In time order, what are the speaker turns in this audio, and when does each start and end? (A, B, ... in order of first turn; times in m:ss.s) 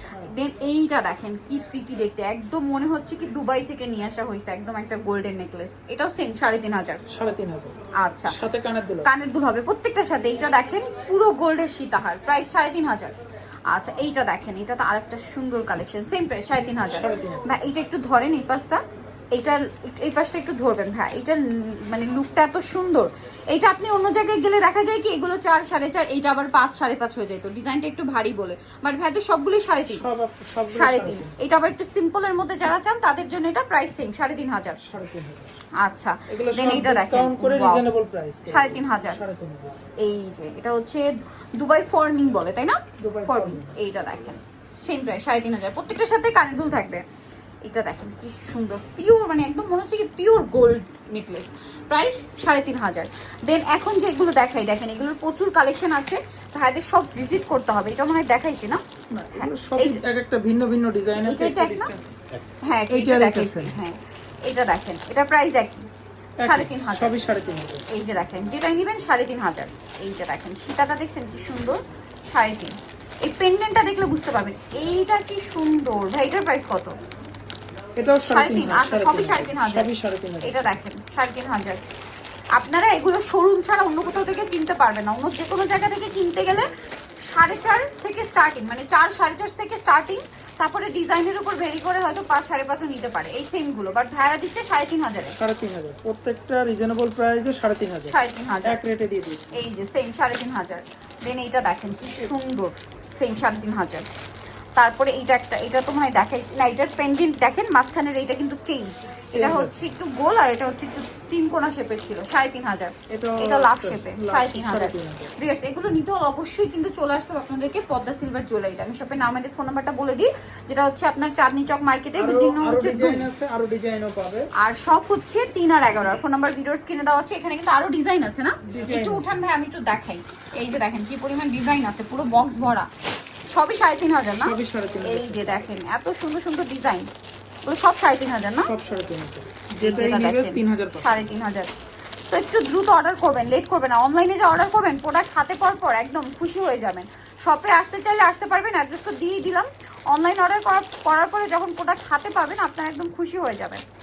0:00.2-0:07.0 A
0:07.1-0:09.1 B
0:08.0-0:08.4 A
0:09.0-0:13.1 A
0:13.7-0:18.8 A
0:16.8-0:17.5 B
0:19.3-0:30.0 A
0:29.9-0:31.4 B
0:30.7-0:34.8 A
0:34.8-0:35.6 B
0:35.8-0:37.8 A
0:36.3-0:39.8 B
0:38.5-0:39.2 A
0:40.0-0:47.0 A
0:43.0-0:43.8 B
0:47.6-0:58.8 A
0:59.1-1:03.8 B
0:59.3-1:00.0 A
1:01.2-1:01.9 A
1:02.6-1:05.9 A
1:06.4-1:07.9 B
1:06.4-1:07.1 A
1:07.9-1:17.0 A
1:18.0-1:20.8 B
1:18.2-1:19.9 A
1:20.4-1:21.8 A
1:22.5-1:26.7 A
1:27.2-1:35.3 A
1:35.4-1:39.6 B
1:38.1-1:38.8 A
1:39.5-1:44.0 A
1:44.8-2:03.2 A
1:49.3-1:49.8 B
1:53.1-1:55.3 B
2:02.2-2:04.5 B
2:04.6-2:12.9 A
2:08.7-2:09.4 B
2:13.5-2:17.1 A
2:14.3-2:15.7 B
2:17.6-2:18.7 A
2:18.5-2:21.2 B
2:19.8-2:21.7 A
2:22.3-2:33.8 A